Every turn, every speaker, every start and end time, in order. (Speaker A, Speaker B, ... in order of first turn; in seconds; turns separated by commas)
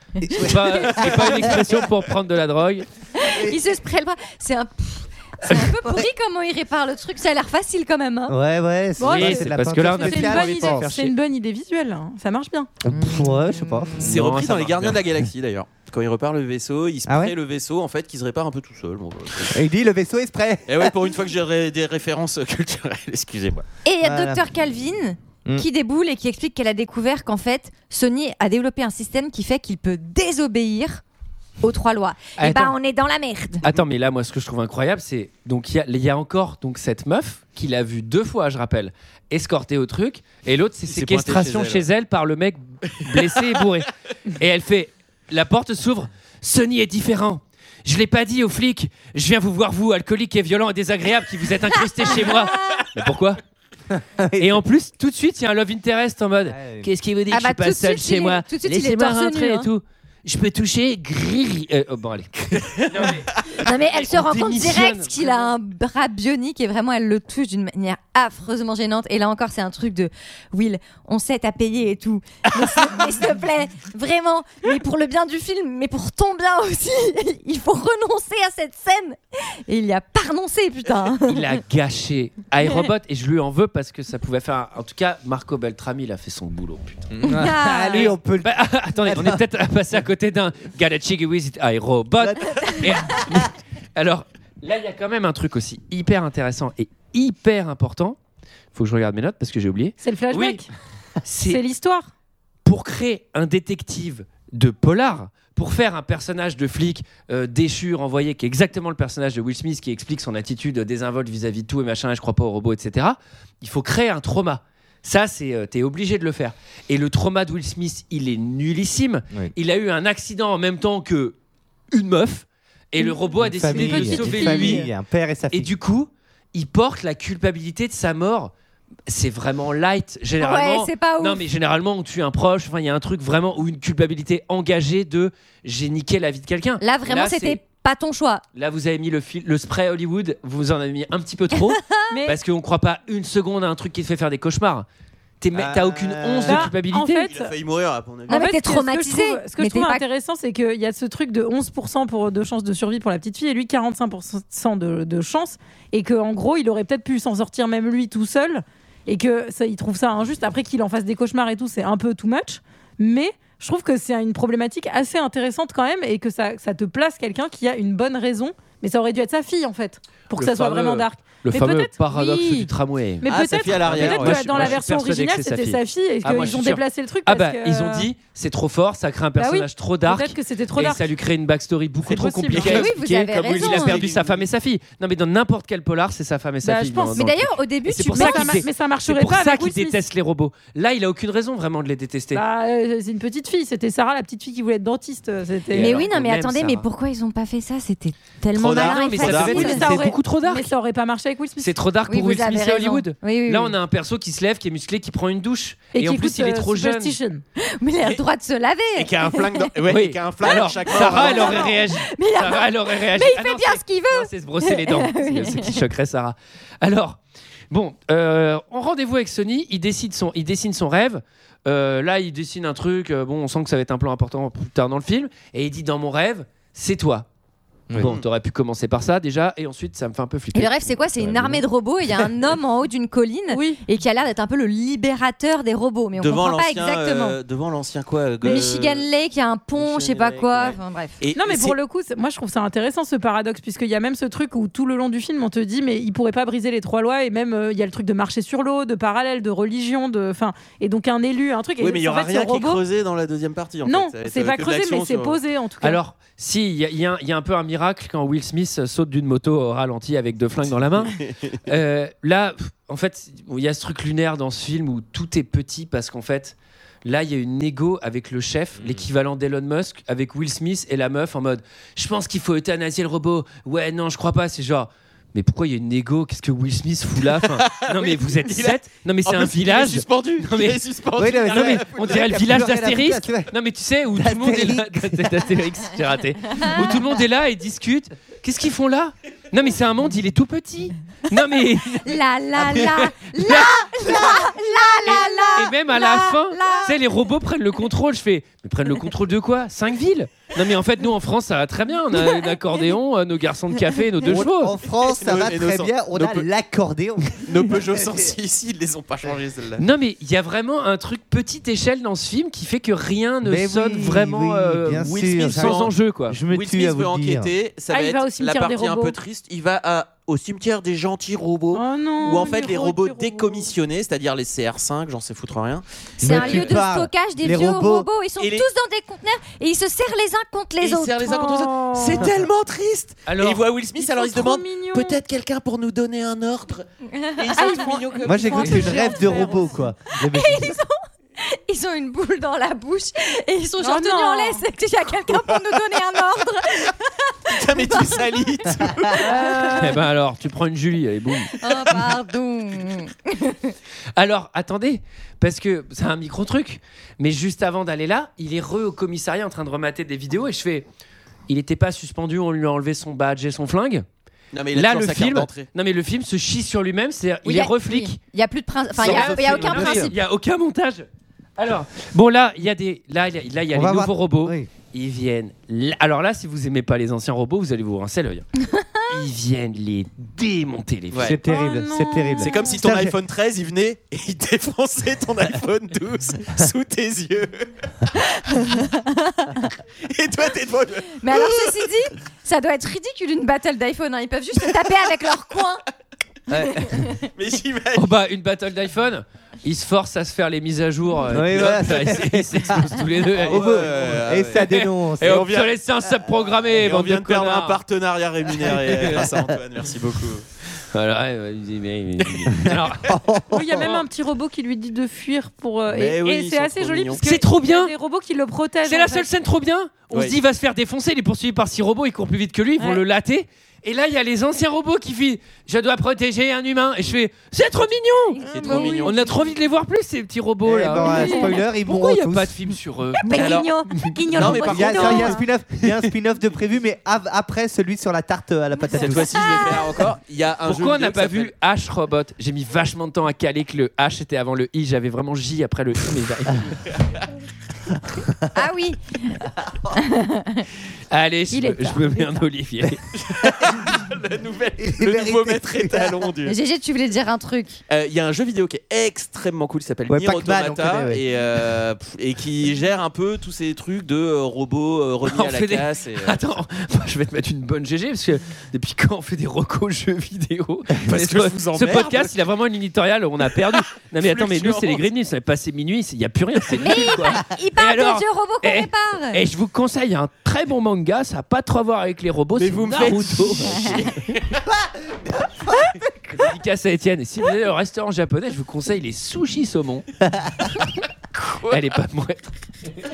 Speaker A: 0.2-1.6, Speaker B: 0.3-2.9, Speaker C: 3.2-8.3, Speaker A: 3.2-3.6, Speaker A: 8.3-10.9, Speaker D: 9.0-12.7, Speaker B: 9.1-11.1, Speaker A: 12.8-14.1, Speaker E: 14.0-19.6, Speaker B: 14.0-15.0, Speaker A: 17.1-17.3, Speaker A: 19.5-20.9, Speaker E: 20.7-23.6, Speaker C: 23.8-31.0, Speaker A: 24.0-24.4, Speaker C: 31.6-33.6, Speaker B: 32.4-32.8, Speaker B: 33.6-53.4, Speaker E: 40.9-41.9, Speaker E: 43.0-43.6, Speaker C: 52.0-52.9, Speaker A: 53.9-54.6, Speaker B: 54.4-65.5, Speaker A: 56.5-56.9, Speaker C: 57.3-59.7, Speaker C: 63.5-81.6, Speaker B: 81.3-87.2, Speaker A: 87.2-89.4, Speaker C: 87.3-88.1, Speaker B: 87.9-98.2, Speaker A: 92.2-93.4, Speaker B: 98.7-100.6, Speaker D: 100.0-100.7, Speaker B: 101.2-101.6, Speaker D: 101.5-102.1, Speaker B: 102.6-121.3, Speaker B: 121.9-124.9, Speaker A: 123.4-125.7, Speaker C: 123.7-124.8, Speaker B: 125.5-128.5, Speaker B: 129.1-137.6, Speaker C: 130.4-131.4, Speaker C: 136.8-138.4, Speaker B: 138.5-144.9, Speaker C: 141.6-142.0, Speaker D: 142.1-142.4, Speaker B: 145.4-147.3, Speaker A: 145.5-146.7, Speaker D: 146.4-147.5, Speaker E: 147.3-148.4, Speaker C: 148.3-150.0, Speaker D: 148.3-172.7, Speaker B: 170.3-173.3, Speaker D: 173.2-178.1, Speaker E: 173.2-174.8, Speaker B: 173.8-192.4, Speaker D: 179.4-181.1, Speaker D: 182.1-182.8, Speaker E: 182.5-184.4, Speaker C: 182.6-184.0, Speaker D: 186.6-187.2, Speaker C: 187.1-188.6, Speaker D: 188.1-190.0, Speaker D: 192.3-196.0, Speaker B: 195.7-196.8, Speaker C: 195.8-199.9, Speaker B: 198.6-200.7, Speaker E: 198.6-199.8, Speaker D: 199.3-201.7, Speaker B: 201.6-207.2, Speaker C: 202.1-203.7, Speaker D: 205.9-207.4, Speaker C: 207.6-209.7, Speaker E: 208.9-211.8, Speaker B: 209.9-217.2, Speaker C: 210.4-215.8, Speaker B: 217.7-227.3, Speaker B: 227.9-231.6, Speaker E: 228.0-228.2, Speaker C: 230.5-237.4, Speaker D: 233.5-233.8, Speaker E: 236.2-239.1, Speaker D: 238.4-238.7, Speaker C: 238.4-241.2, Speaker E: 239.7-241.7, Speaker D: 241.3-252.8, Speaker E: 251.8-255.4, Speaker D: 253.8-256.0, Speaker B: 255.8-261.1, Speaker E: 260.9-261.6, Speaker B: 261.6-280.8, Speaker E: 277.4-282.5, Speaker A: 281.2-283.5, Speaker B: 281.4-294.3, Speaker A: 284.1-285.6, Speaker C: 286.6-287.0, Speaker C: 292.0-297.0, Speaker B: 295.0-304.7, Speaker C: 302.1-302.7, Speaker A: 304.2-308.3, Speaker E: 305.0-306.5, Speaker E: 307.4-309.8, Speaker B: 309.8-316.4, Speaker A: 313.4-317.5, Speaker E: 315.0-315.9, Speaker E: 316.5-325.8, Speaker D: 317.9-319.1, Speaker D: 321.7-323.7, Speaker A: 326.2-328.1, Speaker C: 326.2-331.4, Speaker E: 328.4-328.7, Speaker E: 330.8-336.8, Speaker D: 331.2-332.3, Speaker B: 333.2-333.6, Speaker D: 333.9-335.2, Speaker C: 337.1-339.5, Speaker E: 337.4-339.2, Speaker D: 337.6-339.7, Speaker A: 338.2-340.8, Speaker C: 340.2-349.9, Speaker D: 343.8-344.6, Speaker E: 345.3-345.7, Speaker E: 347.5-349.2, Speaker D: 349.2-350.0, Speaker B: 349.8-351.5, Speaker C: 351.6-353.7, Speaker B: 354.1-360.9, Speaker B: 361.5-364.1, Speaker E: 364.5-365.7, Speaker B: 364.7-368.2, Speaker C: 367.4-370.1, Speaker B: 369.0-371.1, Speaker E: 369.0-370.1, Speaker A: 369.2-369.9, Speaker B: 371.6-378.4, Speaker A: 373.7-374.7, Speaker B: 379.1-381.3, Speaker E: 381.1-381.4, Speaker A: 381.2-383.1, Speaker D: 381.4-382.8, Speaker E: 382.4-387.7, Speaker C: 388.5-389.7, Speaker E: 390.1-391.7, Speaker C: 391.2-395.8, Speaker A: 396.5-396.9, Speaker C: 396.6-397.1, Speaker E: 397.4-398.1, Speaker B: 397.9-407.8, Speaker A: 401.3-405.4, Speaker E: 403.3-405.7, Speaker E: 406.5-410.4, Speaker B: 408.9-409.2, Speaker B: 410.9-413.2, Speaker A: 413.0-413.9, Speaker D: 413.5-419.3, Speaker B: 413.8-414.0, Speaker E: 415.9-417.2, Speaker B: 417.2-417.9, Speaker B: 418.8-428.4, Speaker E: 420.1-420.4, Speaker C: 428.3-429.2, Speaker E: 428.4-429.2, Speaker B: 429.0-434.7, Speaker A: 430.6-432.6, Speaker C: 431.0-431.6, Speaker C: 433.2-435.4, Speaker E: 433.3-433.7, Speaker E: 434.3-435.4, Speaker A: 434.4-439.4, Speaker E: 438.9-441.5, Speaker C: 439.3-440.1, Speaker B: 440.6-446.8, Speaker E: 446.9-447.2, Speaker C: 448.5-450.6, Speaker B: 451.1-453.1, Speaker C: 451.5-452.4, Speaker E: 453.1-456.6, Speaker A: 454.8-456.3, Speaker C: 456.4-457.8, Speaker E: 457.9-466.4, Speaker A: 460.1-461.2, Speaker B: 465.2-484.0, Speaker E: 471.0-472.3, Speaker E: 473.7-475.0, Speaker C: 476.8-479.4, Speaker E: 482.5-484.6, Speaker C: 483.7-484.0, Speaker A: 485.6-485.9, Speaker B: 486.3-490.1, Speaker E: 491.4-491.8, Speaker B: 491.7-492.5